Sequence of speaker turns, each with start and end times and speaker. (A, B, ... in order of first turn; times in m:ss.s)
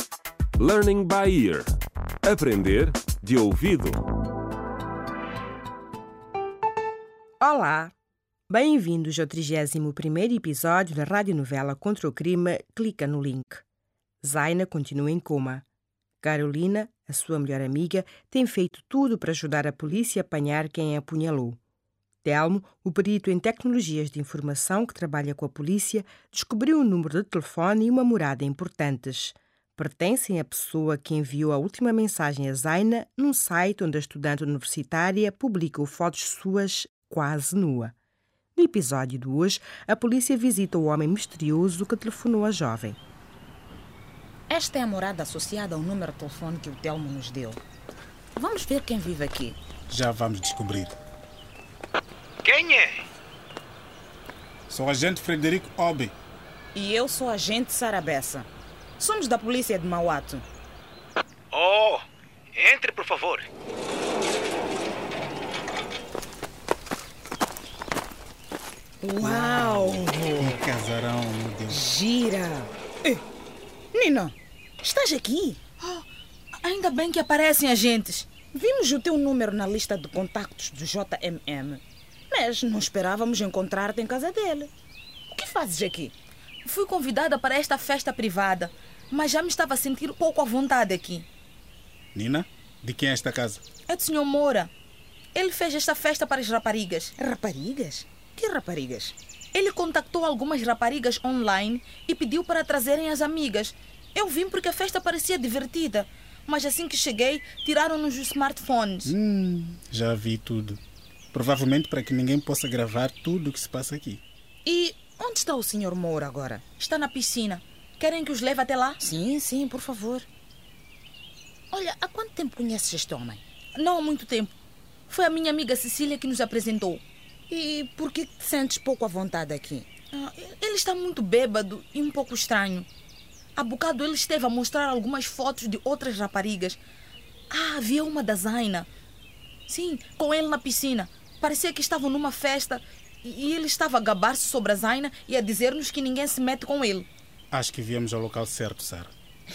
0:00.6-0:01.7 A
0:02.2-0:04.0 A
0:07.4-0:07.9 B
0:08.5-0:13.6 B
0:14.2-0:15.6 B
0:16.2-0:21.6 B
0:22.2-0:37.9 B
0:38.6-0:43.0 B
0:44.5-0:47.6 C
0:48.4-0:49.6 C
0:49.9-0:51.0 D
0:52.4-0:53.0 E
0:54.7-0:56.1 D
0:56.7-1:00.4 C
1:01.5-1:03.5 E
1:09.0-1:10.6 C
1:09.2-1:11.8 D
1:11.7-1:13.2 C
1:13.9-1:15.6 C
1:15.8-1:16.1 F
1:16.6-1:18.3 F
1:18.5-1:24.7 C
1:25.3-1:26.1 C
1:26.6-1:31.3 F
1:32.1-1:33.6 D
1:33.9-1:34.7 F
1:35.3-1:37.1 F
1:37.2-1:39.1 C
1:39.5-1:49.1 F
1:49.1-1:50.8 D
1:51.3-1:54.2 D
1:54.6-1:56.6 C
1:56.8-1:59.0 F
1:59.0-2:00.3 C
2:01.7-2:03.4 C
2:03.7-2:04.6 F
2:05.1-2:07.0 F
2:07.5-2:09.9 C
2:10.1-2:12.9 F
2:13.6-2:16.8 F
2:17.5-2:18.9 F
2:19.7-2:27.1 F
2:27.5-2:29.1 D